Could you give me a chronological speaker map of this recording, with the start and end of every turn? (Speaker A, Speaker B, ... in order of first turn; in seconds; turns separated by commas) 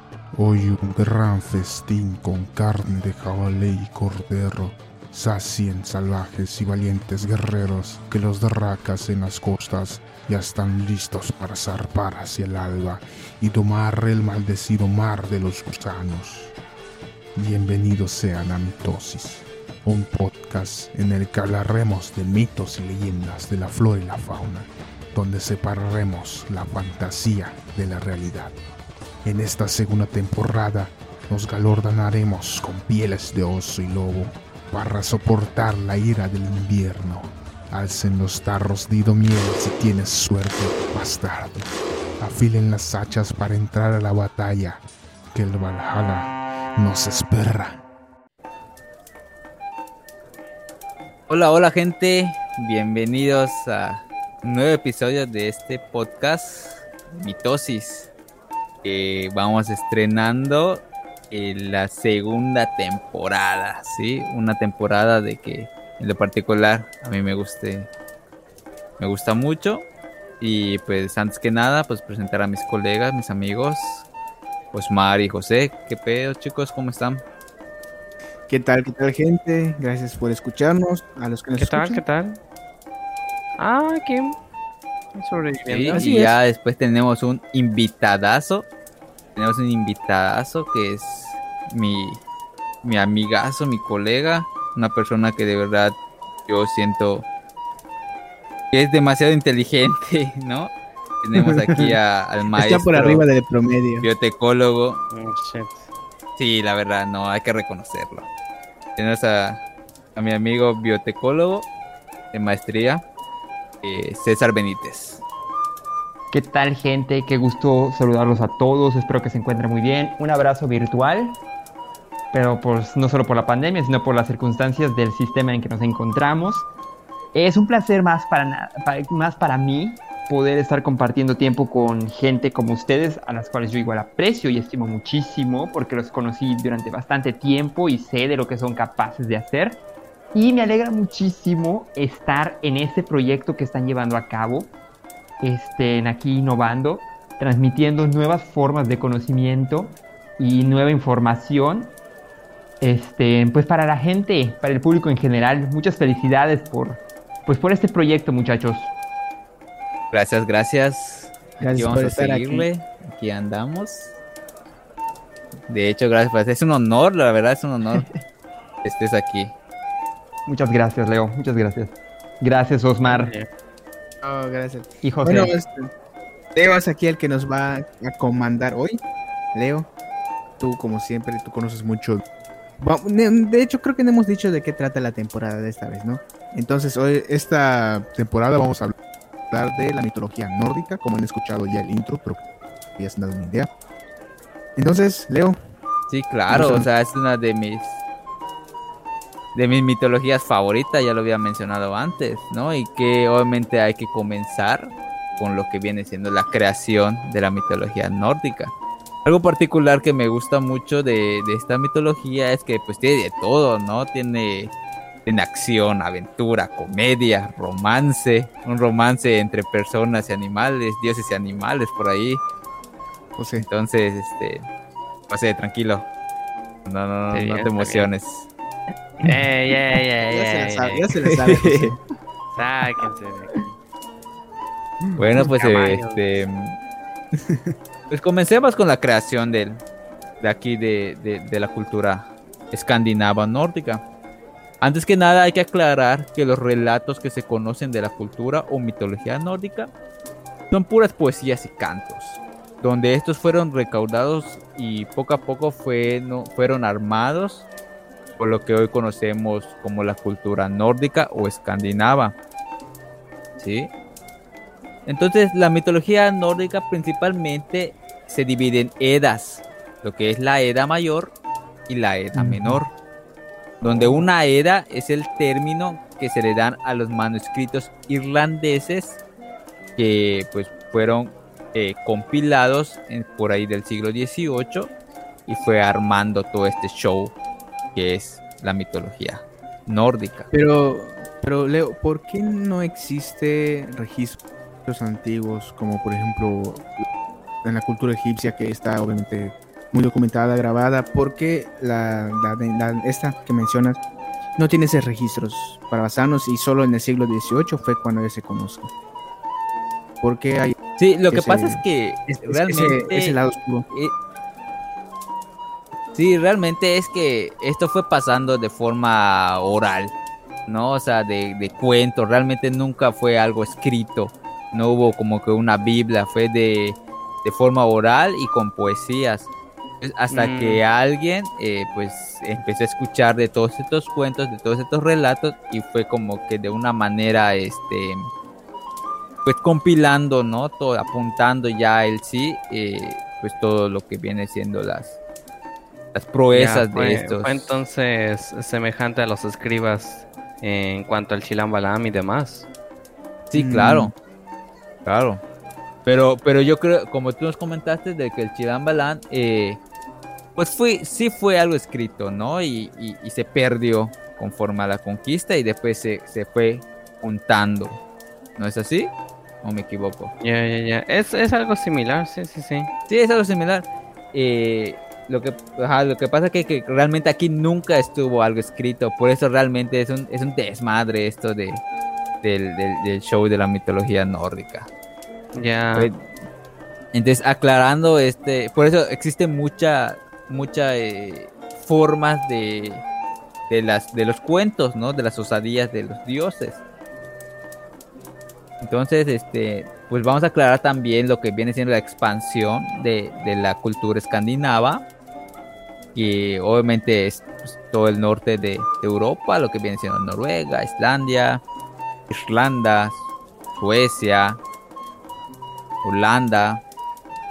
Speaker A: 0.3-16.5, Speaker A: 17.4-28.5, Speaker A: 29.2-44.8, Speaker A: 45.3-47.8, Speaker B: 51.3-58.1, Speaker B: 58.8-67.9, Speaker B: 69.0-69.8, Speaker B: 70.4-74.1, Speaker B: 74.7-77.2, Speaker C: 78.5-82.0, Speaker D: 81.6-82.4, Speaker D: 83.6-84.3, Speaker D: 85.1-86.0, Speaker B: 85.7-88.7, Speaker C: 85.9-86.4, Speaker B: 89.3-92.2, Speaker B: 92.8-97.3, Speaker B: 98.7-103.2, Speaker C: 101.3-102.0, Speaker C: 102.5-104.1, Speaker B: 104.0-105.0, Speaker D: 105.1-105.9, Speaker B: 106.4-108.3, Speaker B: 109.0-109.6, Speaker B: 110.2-111.7, Speaker B: 112.3-113.0, Speaker B: 113.8-115.2, Speaker E: 116.3-121.4, Speaker E: 122.3-126.7, Speaker E: 127.3-139.8, Speaker E: 140.3-144.7, Speaker E: 145.4-151.9, Speaker E: 152.8-158.9, Speaker B: 160.1-164.1, Speaker C: 161.6-162.7, Speaker B: 165.7-168.1, Speaker E: 167.9-168.2, Speaker B: 168.8-169.5, Speaker E: 170.5-173.3, Speaker D: 173.0-173.5, Speaker C: 174.2-175.9, Speaker E: 175.0-175.5, Speaker C: 176.6-179.0, Speaker C: 179.5-179.9, Speaker C: 180.6-182.2, Speaker C: 182.8-188.2, Speaker A: 188.2-188.9, Speaker C: 189.5-192.4, Speaker C: 193.0-193.7, Speaker C: 194.8-195.6, Speaker B: 196.1-197.9, Speaker C: 196.5-196.8, Speaker B: 199.5-208.7, Speaker B: 209.2-214.7, Speaker B: 215.2-222.4, Speaker C: 223.3-223.7, Speaker B: 223.6-224.6, Speaker B: 225.3-226.1, Speaker B: 226.8-228.5, Speaker D: 227.3-228.1, Speaker D: 229.2-231.1, Speaker C: 230.3-232.0, Speaker B: 231.2-231.9, Speaker D: 232.6-233.7, Speaker B: 235.2-236.8, Speaker D: 235.3-236.2, Speaker B: 238.1-239.8, Speaker B: 240.4-244.0, Speaker B: 244.8-249.9, Speaker B: 250.7-257.7, Speaker B: 258.4-262.3, Speaker B: 263.6-263.9, Speaker B: 265.1-271.3, Speaker B: 271.9-272.9, Speaker E: 272.3-272.8, Speaker B: 273.8-279.2, Speaker B: 280.0-284.9, Speaker B: 285.5-287.3, Speaker B: 287.9-290.5, Speaker C: 290.5-297.0, Speaker C: 297.6-304.0, Speaker C: 304.6-308.9, Speaker C: 310.2-310.8, Speaker B: 311.0-313.4, Speaker C: 311.3-313.9, Speaker B: 316.1-320.1, Speaker B: 320.7-329.5, Speaker B: 330.0-338.3, Speaker D: 330.3-330.8, Speaker B: 339.4-345.2, Speaker B: 346.1-347.8, Speaker D: 346.5-352.7, Speaker B: 353.5-354.1, Speaker C: 353.5-354.1, Speaker B: 355.1-355.4, Speaker B: 356.1-359.8, Speaker B: 360.6-368.0, Speaker B: 368.6-369.1, Speaker B: 369.6-370.3, Speaker D: 370.4-372.9, Speaker B: 373.1-381.8, Speaker B: 382.4-384.9, Speaker D: 385.5-386.1, Speaker B: 385.9-386.2, Speaker B: 387.1-393.0, Speaker B: 393.7-396.8, Speaker B: 398.8-405.0, Speaker B: 406.1-411.6, Speaker B: 412.3-413.2, Speaker B: 413.8-414.6, Speaker B: 416.0-416.8